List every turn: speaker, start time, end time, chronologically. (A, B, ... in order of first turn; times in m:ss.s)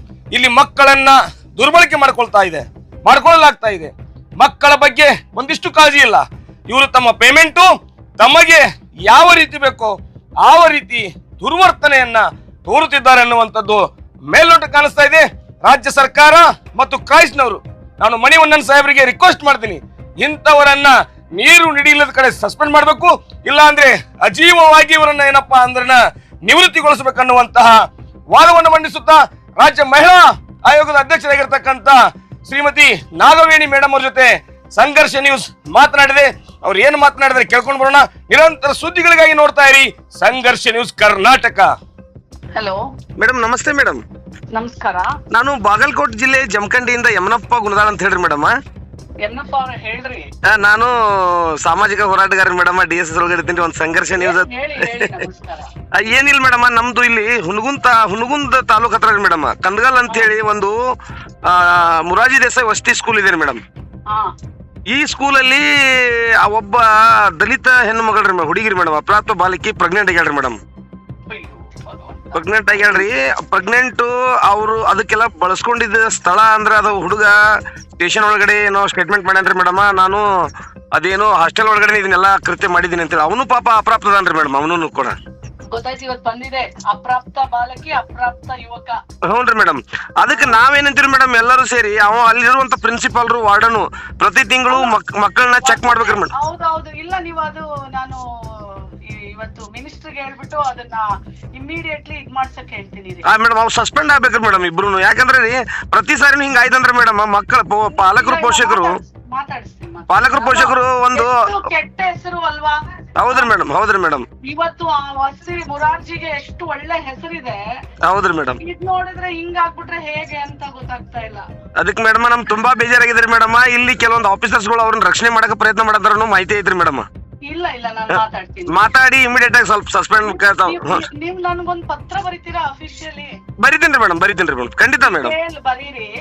0:00.3-0:27.8 A
0:28.3-0:41.7 A
0:42.5-0:42.8 B
0:43.2-0:44.0 C
0:44.5-0:45.1 B
0:45.3-0:48.5 C
0:49.2-0:50.3 B
0:50.5-0:55.1 C
0:54.1-0:55.7 B
0:56.0-1:00.8 C
1:01.4-1:03.6 C
1:04.9-1:10.6 C
1:11.3-1:13.0 B
1:12.3-1:17.4 C
1:18.0-1:20.2 C
1:20.9-1:25.1 C
1:25.7-1:29.0 B
1:29.3-1:36.3 C
1:30.3-1:30.6 B
1:34.7-1:35.0 B
1:35.6-1:41.0 B
1:41.6-1:43.3 B
1:43.2-1:49.0 C
1:47.9-1:53.5 B
1:50.1-1:51.5 C
1:53.2-1:54.2 C
1:54.4-1:57.6 B
1:58.0-1:58.6 C
1:58.6-2:01.4 B
2:01.8-2:07.0 C
2:07.4-2:08.9 B
2:08.1-2:11.0 C
2:10.2-2:13.3 B
2:13.6-2:15.3 C
2:15.0-2:16.1 B